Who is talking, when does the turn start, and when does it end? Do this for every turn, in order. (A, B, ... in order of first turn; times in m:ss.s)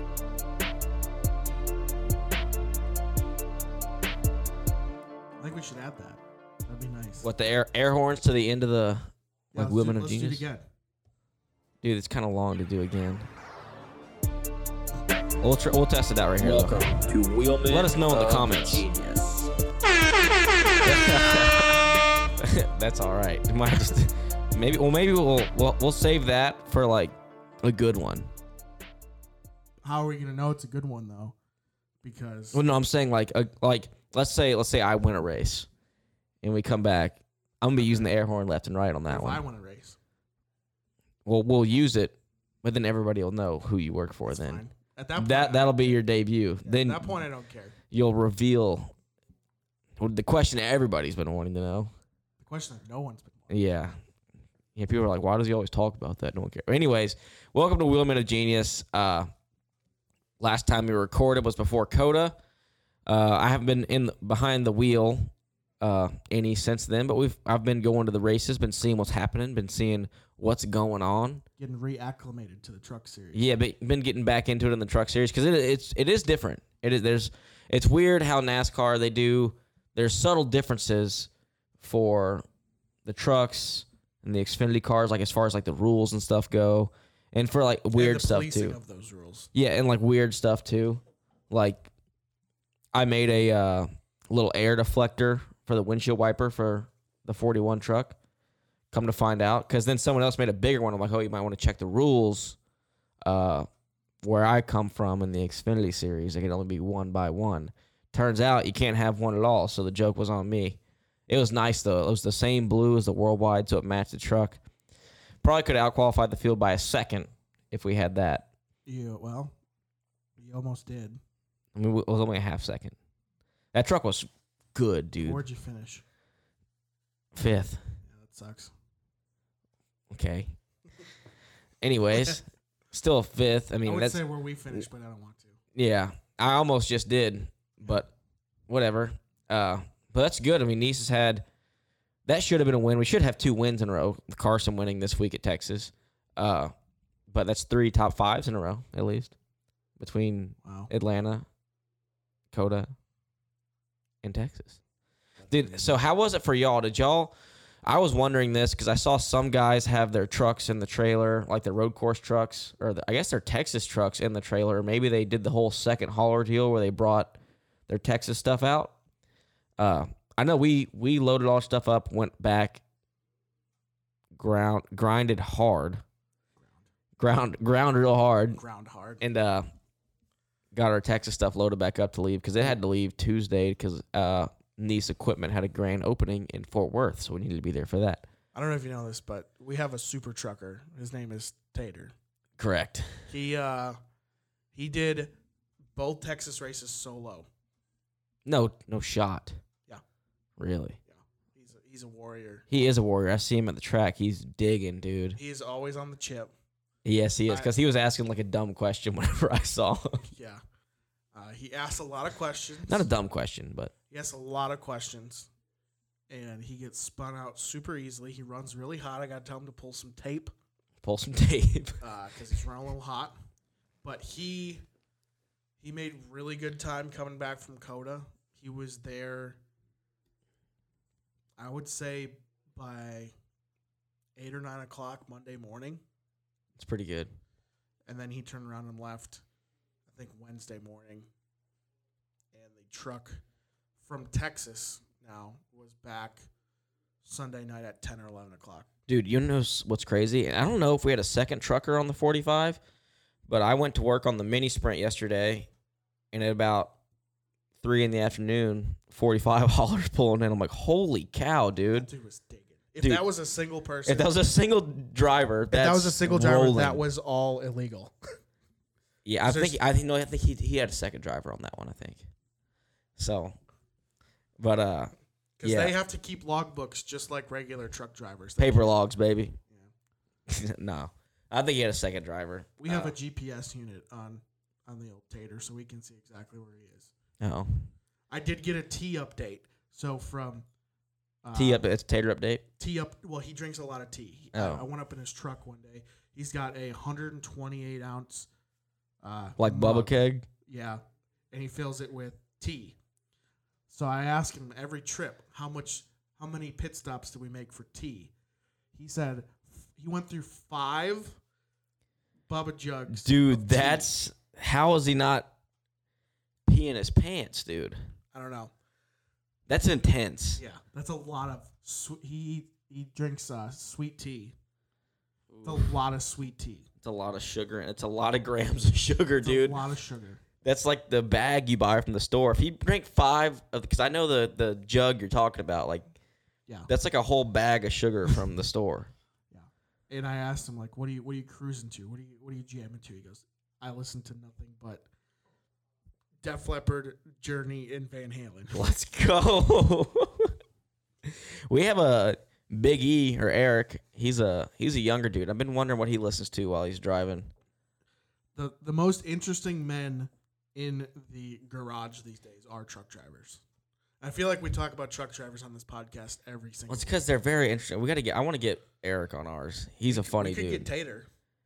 0:05.4-0:07.3 A
0:07.2-0:10.4 B
0:09.5-0:10.7 A
0:11.8-0:13.3 B
0:15.4-0:16.9 B
0:16.4-0:19.5 C
0:17.7-0:18.8 B
0:20.8-0:21.9 B
0:22.4-0:28.3 B
0:29.8-0:31.4 A
0:32.0-0:32.6 A
0:32.5-0:35.7 B
0:36.4-0:39.4 B
0:37.8-0:38.1 A
0:39.1-0:40.0 A
0:41.2-0:44.6 B
0:44.3-0:46.0 A
0:45.2-0:47.2 B
0:46.6-0:47.8 A
0:47.9-0:48.9 B
0:50.0-0:51.9 B
0:52.4-0:53.6 A
0:53.5-0:54.0 B
0:54.7-0:59.3 B
1:00.4-1:02.4 B
1:03.0-1:11.4 B
1:11.6-1:13.5 A
1:13.3-1:22.4 B
1:23.0-1:28.8 B
1:27.9-1:29.5 A
1:29.5-1:31.9 B
1:32.9-1:38.2 B
1:38.9-1:42.6 B
1:43.2-1:43.7 B
1:44.2-1:54.6 B
1:55.4-1:58.5 B
1:58.8-1:59.5 A
2:00.4-2:01.2 A
2:01.8-2:02.9 B
2:03.7-2:05.4 B
2:05.2-2:06.0 A
2:07.3-2:07.8 B
2:08.1-2:08.7 A
2:10.1-2:10.5 B
2:11.8-2:14.2 B
2:13.8-2:15.6 A
2:15.8-2:18.1 B
2:18.7-2:21.4 B
2:22.2-2:26.7 B
2:27.3-2:29.3 B
2:30.0-2:31.4 B
2:30.6-2:30.9 A
2:32.5-2:32.9 B
2:34.2-2:34.8 B
2:35.4-2:36.0 A
2:35.5-2:47.3 B
2:47.9-2:48.9 B
2:49.8-2:52.8 B
2:54.4-2:56.0 B
2:57.2-2:58.6 B
2:58.5-2:59.3 A
2:59.2-2:59.7 B
3:00.7-3:08.2 B
3:08.5-3:12.1 A
3:12.6-3:13.3 B
3:13.3-3:14.0 A
3:14.7-3:15.3 A
3:16.0-3:17.5 A
3:18.4-3:19.6 B
3:20.6-3:21.0 B
3:21.1-3:22.7 A
3:22.7-3:25.4 B
3:25.3-3:26.5 A
3:27.0-3:30.2 B
3:27.5-3:27.7 A
3:30.3-3:30.6 A
3:31.3-3:33.1 A
3:32.9-3:33.9 B
3:34.1-3:35.5 A
3:36.3-3:40.5 A
3:41.0-3:42.0 B
3:42.0-3:43.4 A
3:44.0-3:44.8 A
3:45.8-3:49.6 A
3:51.6-3:53.3 A
3:54.4-3:56.0 A
3:56.8-3:57.3 B
3:58.1-3:59.4 A
4:00.1-4:01.3 A
4:02.5-4:03.4 A
4:04.0-4:06.5 A
4:07.2-4:08.9 A
4:09.1-4:12.8 B
4:13.5-4:15.7 B
4:16.3-4:17.0 B
4:17.8-4:22.1 B
4:21.9-4:24.4 A
4:24.0-4:27.0 B
4:25.7-4:28.2 A
4:29.2-4:32.3 B
4:29.4-4:29.8 A
4:33.2-4:33.6 B
4:34.6-4:35.9 B
4:35.6-4:39.0 A
4:38.6-4:39.6 B
4:40.5-4:43.1 B
4:42.8-4:47.1 A
4:47.4-4:47.9 B
4:48.3-4:50.7 A
4:51.4-4:51.9 A
4:51.6-4:52.6 B
4:52.8-4:58.5 A
4:54.5-4:54.8 B
4:59.2-5:00.1 A
4:59.6-5:00.5 B
5:00.7-5:03.0 A
5:03.9-5:08.3 A
5:08.9-5:11.4 A
5:12.5-5:14.1 A
5:13.1-5:15.5 B
5:16.7-5:18.0 B
5:18.3-5:18.7 A
5:19.7-5:20.6 B
5:20.6-5:24.6 A
5:25.5-5:25.9 B
5:25.6-5:26.9 A
5:27.0-5:29.8 B
5:29.4-5:30.4 A
5:30.6-5:36.1 B
5:36.9-5:39.1 B
5:39.5-5:45.1 A
5:46.4-5:48.8 A
5:48.7-5:50.5 B
5:51.2-5:57.5 B
5:58.6-6:03.6 A
6:04.2-6:07.2 A
6:06.9-6:10.9 B
6:10.1-6:11.3 A